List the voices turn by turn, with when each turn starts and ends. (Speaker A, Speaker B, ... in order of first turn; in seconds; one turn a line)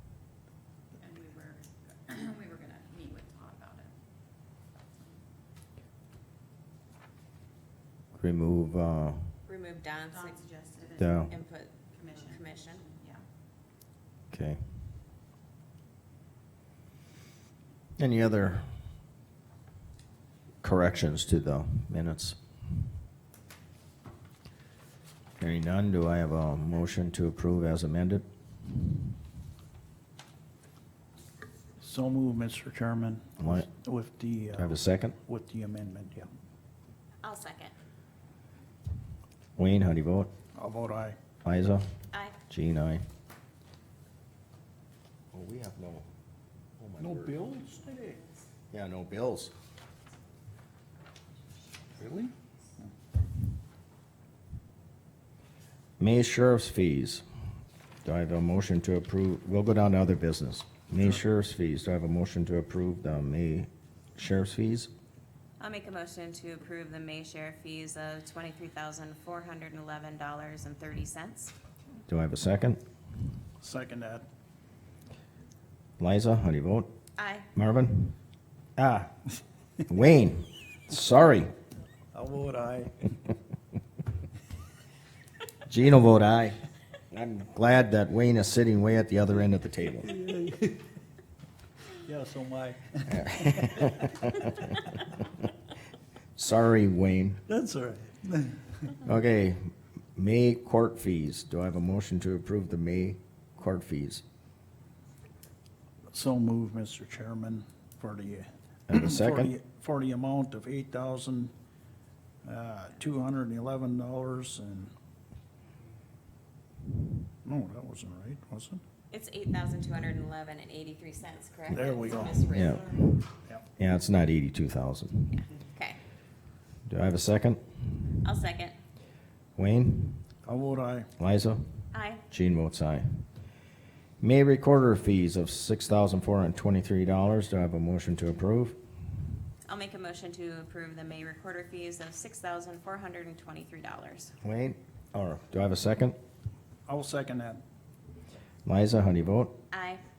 Speaker A: 1.0-3.9
Speaker B: 8.1-9.4
Speaker C: 9.4-10.4
Speaker A: 10.1-13.2
Speaker B: 11.0-11.3
Speaker C: 11.3-12.8
Speaker B: 14.3-14.6
Speaker B: 18.0-18.7
Speaker B: 20.6-22.4
Speaker B: 25.4-28.2
Speaker D: 31.8-36.3
Speaker B: 33.4-33.7
Speaker B: 34.5-35.1
Speaker C: 37.2-37.7
Speaker B: 39.5-40.3
Speaker D: 40.5-41.2
Speaker B: 41.4-41.9
Speaker B: 42.5-43.0
Speaker B: 45.3-46.1
Speaker B: 46.8-47.4
Speaker D: 47.0-48.2
Speaker B: 48.7-49.5
Speaker D: 51.9-52.9
Speaker B: 56.0-57.2
Speaker B: 58.0-64.9
Speaker C: 65.6-71.5
Speaker B: 72.1-72.8
Speaker D: 73.6-74.2
Speaker B: 76.0-76.9
Speaker C: 77.2-77.5
Speaker B: 77.5-78.2
Speaker B: 78.8-79.1
Speaker B: 79.9-81.5
Speaker D: 82.1-83.1
Speaker B: 85.7-90.2
Speaker D: 90.0-90.8
Speaker D: 91.9-94.1
Speaker B: 93.2-94.5
Speaker B: 96.3-97.4
Speaker D: 97.5-98.9
Speaker B: 99.0-104.2
Speaker D: 106.1-111.5
Speaker B: 108.9-109.5
Speaker D: 112.4-114.9
Speaker D: 117.4-118.8
Speaker C: 119.1-123.2
Speaker D: 121.7-122.7
Speaker B: 122.5-123.1
Speaker B: 123.8-125.4
Speaker C: 125.3-126.0
Speaker B: 126.9-128.0
Speaker C: 128.2-128.8
Speaker B: 129.6-130.2
Speaker D: 130.4-131.1
Speaker B: 131.2-133.3
Speaker C: 131.9-132.2
Speaker B: 134.2-138.8
Speaker C: 139.7-144.3
Speaker B: 144.4-146.2
Speaker D: 146.9-147.6
Speaker B: 148.7-149.6
Speaker C: 149.7-150.0